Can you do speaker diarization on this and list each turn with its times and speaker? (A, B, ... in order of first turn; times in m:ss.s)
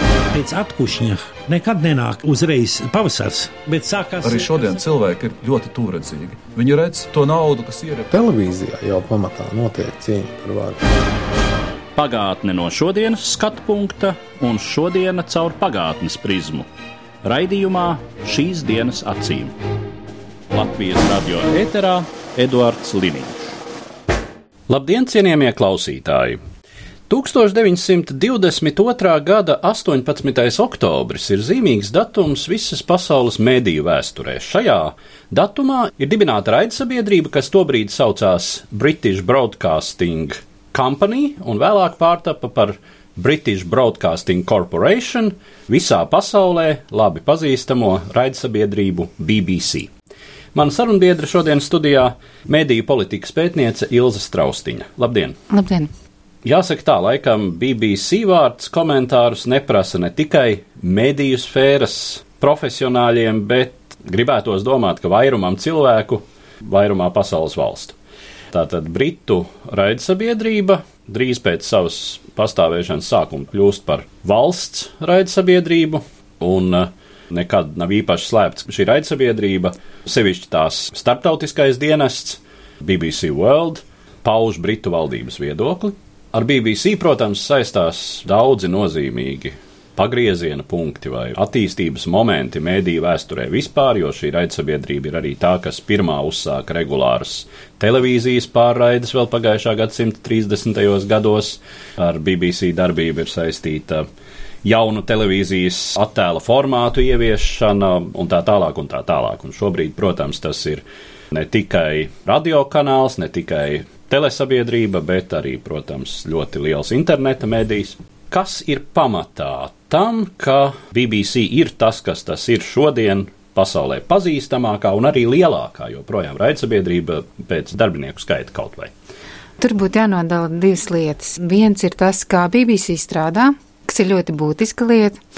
0:00.3-0:04.5 A
0:04.2-0:08.1 B
0:08.1-0:10.8 C
0:12.0-0:16.7 D
0:17.2-0:19.5 D
0:20.5-0:23.5 D
0:24.7-0:26.4 D
0:27.1-0:49.9 D
0:50.6-0:55.4 D
0:55.5-0:55.9 E
0:56.4-1:08.0 D
1:08.5-1:44.1 D
1:44.6-2:08.9 D
2:09.6-2:15.2 E